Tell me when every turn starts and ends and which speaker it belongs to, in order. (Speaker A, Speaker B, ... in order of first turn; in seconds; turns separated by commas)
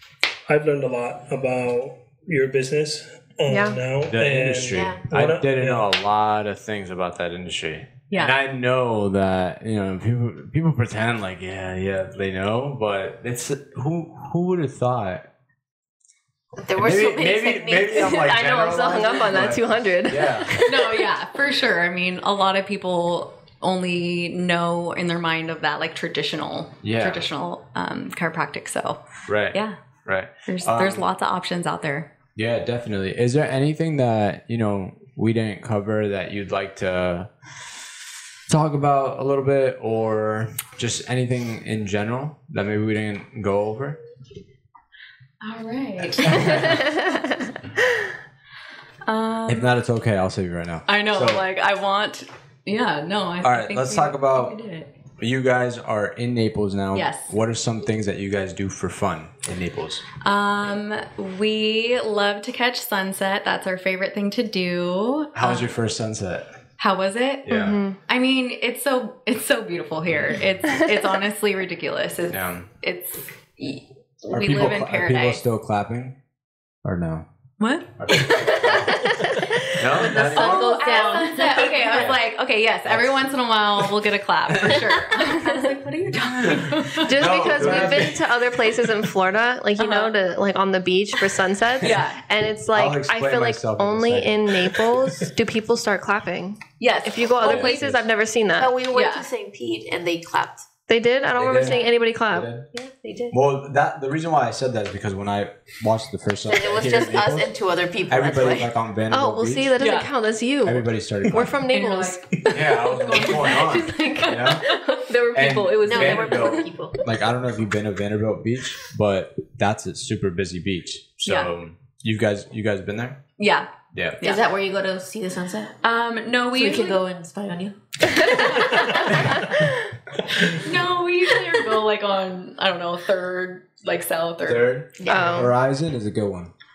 Speaker A: 0.5-5.9, Speaker B: 3.5-3.8, Speaker C: 4.0-15.3, Speaker D: 4.7-5.0, Speaker D: 16.6-19.5, Speaker C: 16.7-20.5, Speaker B: 18.1-21.1, Speaker E: 20.7-29.8, Speaker C: 26.8-27.3, Speaker C: 29.3-31.1, Speaker E: 30.4-32.1, Speaker C: 32.4-37.3, Speaker C: 38.5-44.0, Speaker E: 45.4-46.8, Speaker C: 46.1-46.8, Speaker B: 46.5-47.5, Speaker E: 49.1-49.7, Speaker C: 49.5-51.4, Speaker E: 50.9-54.9, Speaker C: 53.4-54.6, Speaker C: 55.2-60.0, Speaker E: 56.9-57.3, Speaker E: 60.2-65.7, Speaker C: 65.3-66.5, Speaker E: 66.8-75.4, Speaker C: 67.5-67.8, Speaker B: 67.5-68.0, Speaker C: 70.1-70.5, Speaker C: 72.3-72.7, Speaker C: 74.3-76.2, Speaker C: 76.8-77.3, Speaker E: 77.6-77.9, Speaker C: 78.0-81.0, Speaker B: 78.6-79.5, Speaker D: 79.8-82.2, Speaker E: 80.1-87.2, Speaker C: 81.9-82.2, Speaker C: 82.9-83.9, Speaker C: 84.5-85.0, Speaker C: 86.4-88.8, Speaker B: 87.0-98.7, Speaker A: 87.4-88.0, Speaker E: 89.8-90.1, Speaker E: 91.8-92.2, Speaker C: 92.7-95.3, Speaker E: 96.8-97.8, Speaker C: 97.4-98.0, Speaker D: 98.5-100.7, Speaker E: 98.9-99.3, Speaker B: 100.9-102.5, Speaker C: 101.3-102.7, Speaker D: 101.6-102.0, Speaker D: 102.7-103.4, Speaker C: 103.3-107.6, Speaker D: 106.5-108.7, Speaker C: 108.1-109.7, Speaker B: 109.1-112.5, Speaker E: 109.8-110.1, Speaker C: 110.6-111.6, Speaker E: 111.7-114.9, Speaker C: 112.5-114.6, Speaker B: 113.1-116.7, Speaker C: 115.3-123.2, Speaker D: 115.9-117.0, Speaker E: 121.3-121.5, Speaker E: 123.4-124.4, Speaker C: 123.9-124.2, Speaker D: 124.2-125.8, Speaker E: 125.8-127.0, Speaker D: 126.5-129.4, Speaker E: 128.1-129.5, Speaker E: 130.4-134.7, Speaker C: 134.4-136.5, Speaker D: 135.0-135.5, Speaker B: 135.1-135.5